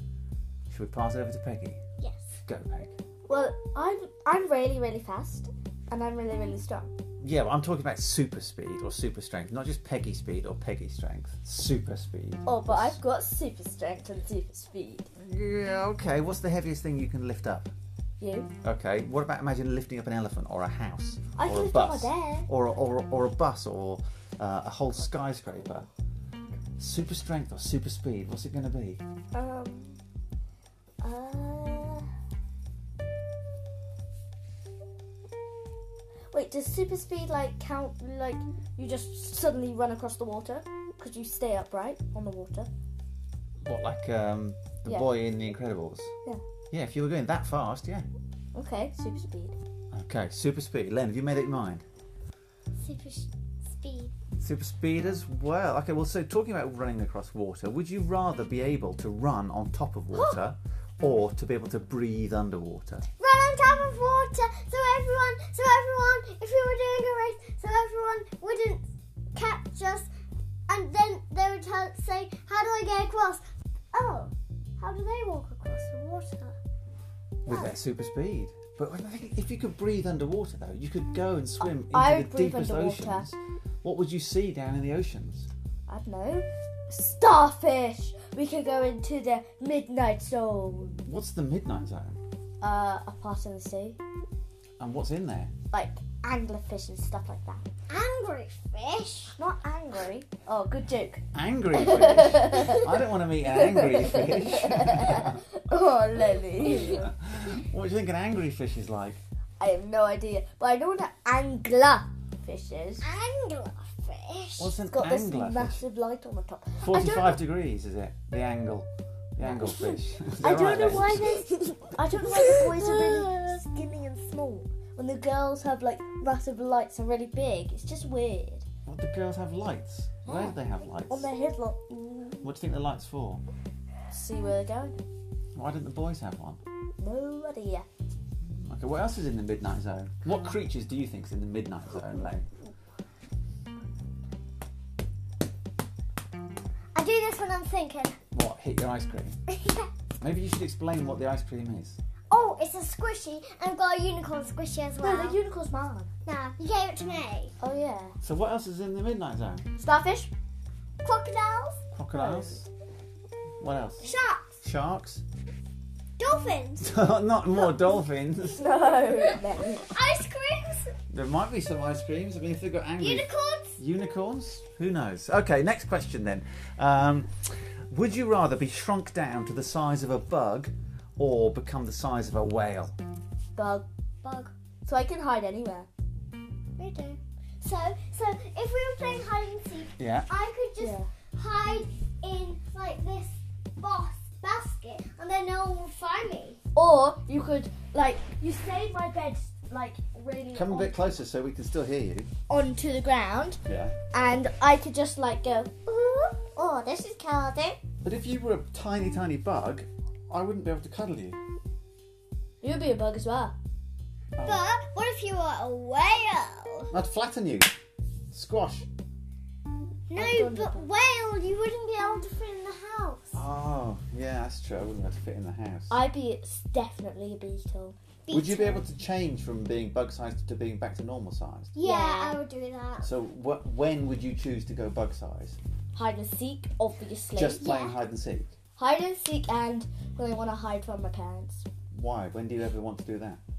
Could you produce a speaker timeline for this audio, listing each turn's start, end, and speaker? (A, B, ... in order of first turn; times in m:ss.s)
0:00.7-0:01.8 A
0:02.0-0:02.3 B
0:02.5-0:03.0 A
0:03.3-0:06.9 C
0:07.2-0:13.0 A
0:12.5-0:15.1 C
0:15.2-0:17.7 A
0:18.2-0:18.5 C
0:18.6-0:25.9 A
0:21.4-0:22.5 C
0:26.8-0:29.0 A
0:29.3-0:30.0 C
0:31.0-0:32.1 C
0:36.3-0:42.7 C
0:43.6-0:46.1 A
0:44.9-0:45.1 C
0:46.7-0:48.1 A
0:48.6-0:49.6 C
0:49.9-0:51.8 A
0:52.8-0:54.1 B
0:54.4-1:03.0 A
1:03.2-1:08.8 B
1:09.3-1:10.1 B
1:10.7-1:16.6 B
1:17.5-1:25.5 A
1:17.5-1:17.7 B
1:21.6-1:23.3 C
1:25.9-1:31.0 C
1:31.0-1:32.2 A
1:32.6-1:34.0 C
1:34.8-1:35.5 A
1:35.7-1:37.6 C
1:37.9-1:39.4 B
1:39.4-1:42.9 C
1:41.3-1:45.4 A
1:43.4-1:47.1 C
1:46.7-1:49.2 A
1:49.6-1:53.1 C
1:53.0-1:54.7 B
1:54.6-1:55.8 A
1:54.8-1:57.4 C
1:56.8-2:01.4 A
1:59.4-2:08.6 C
2:02.4-2:03.6 B
2:08.9-2:11.3 A
2:10.3-2:10.6 C
2:11.1-2:12.4 C
2:12.4-2:13.4 A
2:14.1-2:15.0 C
2:15.6-2:16.6 A
2:17.0-2:17.9 C
2:18.5-2:22.5 A
2:27.0-2:28.2 B
2:28.3-2:29.4 A
2:29.5-2:29.9 B
2:30.2-2:32.0 A
2:32.3-2:35.4 B
2:35.0-2:36.1 C
2:36.3-2:37.5 B
2:37.6-2:38.2 C
2:38.2-2:39.6 A
2:39.8-2:40.3 C
2:41.0-2:41.8 B
2:41.9-2:42.7 A
2:42.2-2:42.6 C
2:43.6-2:45.2 A
2:44.0-2:44.5 B
2:46.2-2:46.9 B
2:46.8-2:48.7 A
2:48.5-2:49.9 C
2:49.1-2:50.9 B
2:51.1-3:03.0 A
2:53.0-2:53.8 B
3:03.6-3:03.9 C
3:04.2-3:04.5 B
3:04.9-3:05.9 C
3:06.8-3:16.6 B
3:10.0-3:10.3 A
3:10.8-3:11.1 C
3:16.8-3:21.2 C
3:20.5-3:22.3 A
3:22.5-3:23.6 C
3:23.7-3:23.9 A
3:24.1-3:25.7 C
3:25.9-3:27.7 B
3:26.6-3:27.8 C
3:28.0-3:31.4 A
3:32.6-3:33.6 C
3:34.4-3:34.6 A
3:34.4-3:36.9 B
3:36.9-3:37.7 A
3:38.3-3:38.9 A
3:40.1-3:43.4 B
3:40.2-3:40.9 C
3:43.3-3:46.0 A
3:45.9-3:48.0 C
3:48.3-3:48.8 B
3:48.3-3:51.7 A
3:51.8-3:53.1 B
3:51.8-3:52.4 C
3:53.0-3:55.6 A
3:55.9-3:57.6 C
3:57.4-3:58.5 A
3:57.6-3:58.0 B
3:58.8-4:01.7 C
4:01.9-4:03.4 A